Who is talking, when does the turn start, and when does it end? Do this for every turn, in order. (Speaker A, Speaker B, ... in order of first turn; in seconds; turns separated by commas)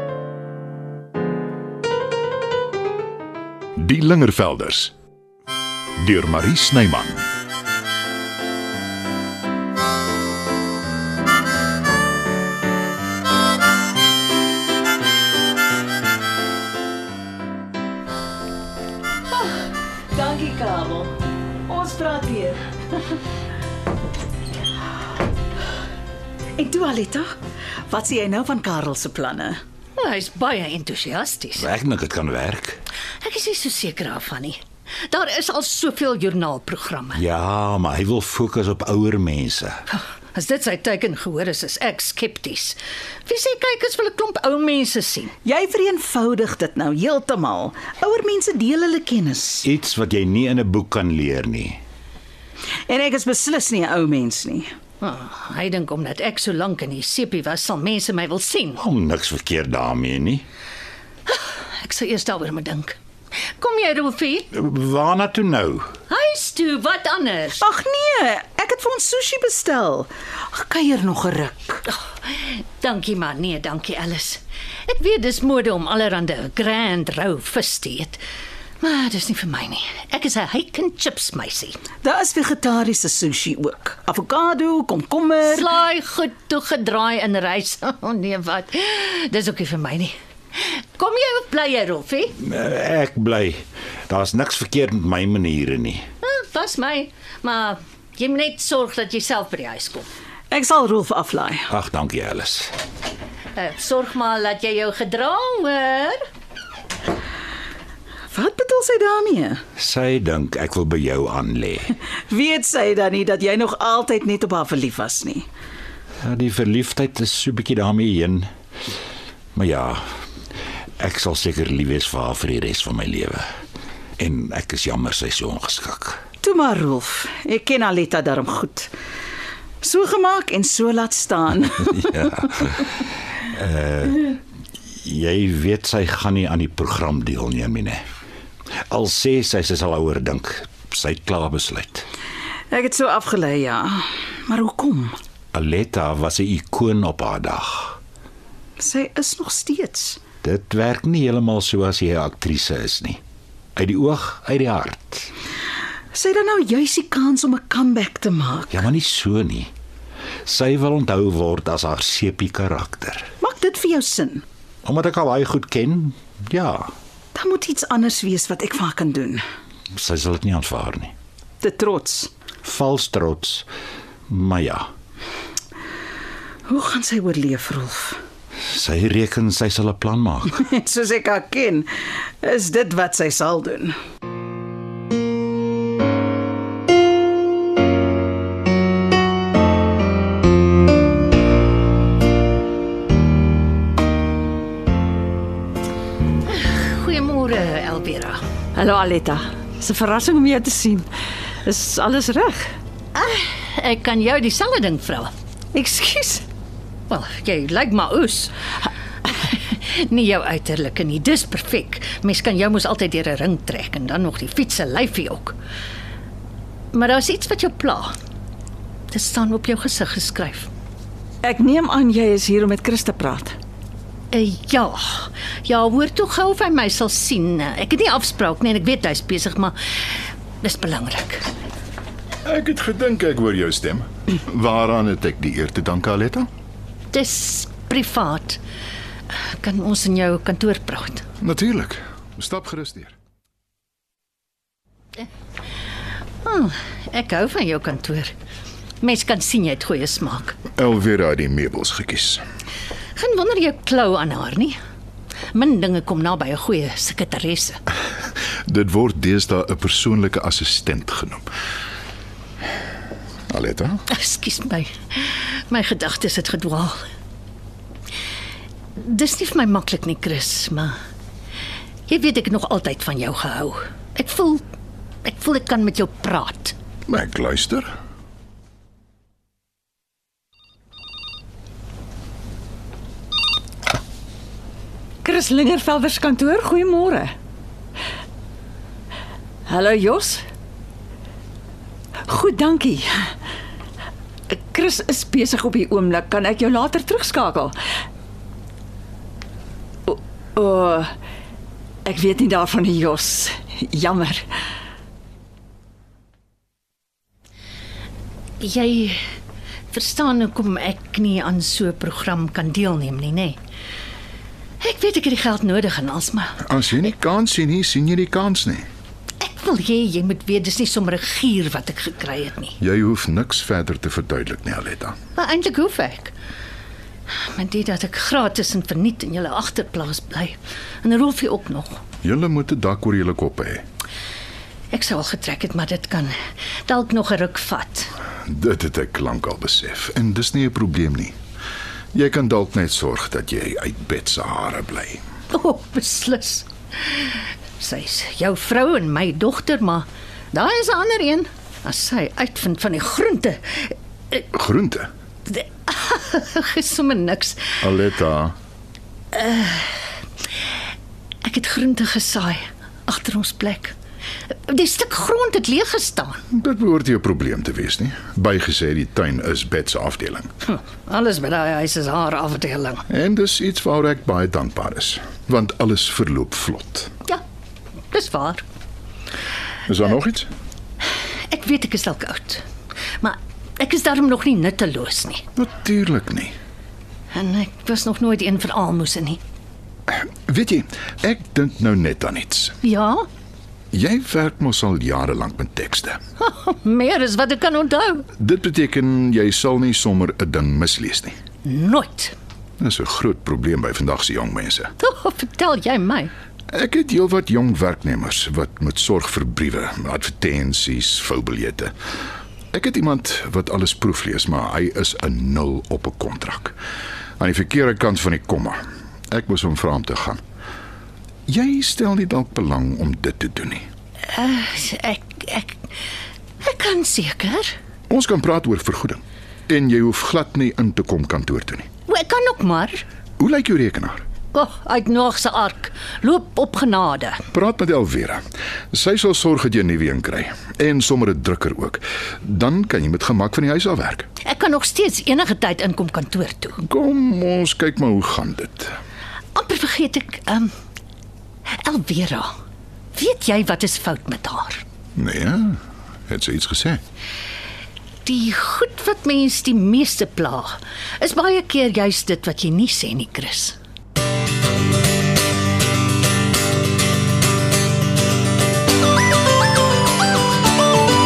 Speaker A: 3.8-4.9, Speaker A: 6.0-7.2, Speaker B: 19.3-21.1, Speaker B: 21.7-22.6, Speaker B: 26.6-27.3, Speaker B: 27.9-29.6, Speaker C: 30.0-31.6, Speaker D: 31.6-32.8, Speaker C: 33.2-37.2, Speaker D: 37.1-39.8, Speaker C: 39.9-45.3, Speaker B: 45.5-49.6, Speaker D: 49.6-51.8, Speaker B: 52.9-54.7, Speaker C: 55.0-58.8, Speaker D: 58.8-60.5, Speaker C: 61.3-63.0, Speaker C: 63.6-64.5, Speaker D: 64.5-65.8, Speaker C: 66.1-67.6, Speaker B: 67.6-71.8, Speaker C: 71.9-78.2, Speaker C: 78.8-81.8, Speaker B: 82.0-85.7, Speaker C: 85.4-92.3, Speaker D: 92.4-96.0, Speaker C: 96.2-100.1, Speaker B: 100.5-101.7, Speaker D: 101.7-102.7, Speaker C: 103.6-106.2, Speaker B: 108.3-109.6, Speaker D: 109.8-112.0, Speaker B: 112.3-115.5, Speaker D: 116.2-118.5, Speaker D: 119.5-120.0, Speaker D: 121.0-123.4, Speaker D: 124.2-126.2, Speaker B: 126.4-128.9, Speaker B: 129.8-131.9, Speaker D: 131.9-134.4, Speaker D: 135.0-138.0, Speaker D: 138.9-142.1, Speaker B: 142.7-145.2, Speaker D: 145.5-148.0, Speaker B: 148.8-150.2, Speaker D: 150.4-153.2, Speaker D: 153.8-155.3, Speaker B: 156.1-158.8, Speaker D: 158.7-159.7, Speaker D: 160.5-163.3, Speaker B: 163.4-164.4, Speaker D: 164.8-166.9, Speaker B: 167.3-169.4, Speaker D: 169.9-171.1, Speaker B: 171.6-172.3, Speaker D: 172.6-173.7, Speaker D: 174.3-174.9, Speaker B: 176.7-178.2, Speaker D: 178.7-180.6, Speaker B: 180.6-184.0, Speaker C: 196.5-198.4, Speaker E: 198.8-201.1, Speaker E: 201.7-202.7, Speaker C: 203.2-205.3, Speaker E: 205.8-206.4, Speaker C: 207.1-208.5, Speaker C: 209.3-215.6, Speaker C: 216.9-218.1, Speaker C: 219.1-220.7, Speaker E: 221.4-223.5, Speaker C: 224.3-229.8, Speaker C: 230.6-231.4, Speaker A: 232.4-236.5, Speaker C: 237.1-238.6, Speaker C: 239.6-241.2, Speaker A: 241.4-243.2, Speaker C: 246.4-248.3, Speaker C: 249.0-250.6, Speaker A: 250.8-252.4, Speaker C: 253.2-254.8, Speaker C: 255.5-257.8, Speaker A: 258.7-261.4, Speaker A: 263.5-264.0, Speaker C: 264.1-267.0, Speaker C: 269.0-271.0, Speaker C: 272.1-274.6, Speaker C: 275.2-276.8, Speaker A: 277.1-277.9, Speaker E: 285.2-287.3, Speaker E: 289.7-290.4, Speaker E: 292.3-293.3, Speaker E: 294.5-297.8, Speaker E: 300.1-301.1, Speaker E: 302.1-304.5, Speaker C: 308.6-309.2, Speaker C: 309.9-313.6, Speaker C: 314.8-316.6, Speaker A: 316.6-318.9, Speaker C: 319.4-322.8, Speaker A: 322.8-325.2, Speaker C: 325.4-326.3, Speaker C: 327.4-332.0, Speaker A: 332.2-333.8, Speaker C: 334.9-336.4, Speaker C: 336.9-338.1, Speaker A: 338.4-341.4, Speaker A: 342.1-345.2, Speaker C: 345.5-354.4, Speaker A: 354.5-355.1, Speaker C: 355.5-357.9, Speaker A: 357.8-358.5, Speaker C: 359.3-360.1, Speaker C: 361.4-363.9, Speaker C: 364.7-366.4, Speaker A: 366.5-370.5, Speaker C: 370.7-373.1, Speaker A: 373.1-377.1, Speaker C: 378.1-378.6, Speaker A: 379.9-380.5, Speaker C: 381.5-382.6, Speaker C: 383.2-385.4, Speaker A: 385.6-386.5, Speaker C: 387.3-389.4, Speaker A: 390.1-392.8, Speaker C: 392.8-393.2, Speaker A: 393.9-396.2, Speaker C: 396.4-398.3, Speaker A: 398.4-401.3, Speaker C: 401.6-402.3, Speaker A: 402.8-404.9, Speaker C: 405.0-406.3, Speaker A: 406.7-411.9, Speaker A: 412.7-416.8, Speaker A: 417.4-418.8, Speaker A: 419.3-420.4, Speaker A: 421.5-423.9, Speaker C: 424.3-425.8, Speaker C: 426.6-427.7, Speaker A: 428.1-431.9, Speaker C: 432.1-433.0, Speaker A: 433.4-434.2, Speaker C: 434.5-437.4, Speaker A: 437.5-444.3, Speaker C: 444.4-446.8, Speaker A: 446.8-448.9, Speaker C: 449.6-450.7, Speaker C: 451.8-452.5, Speaker C: 453.1-454.8, Speaker A: 455.2-457.0, Speaker C: 458.2-463.8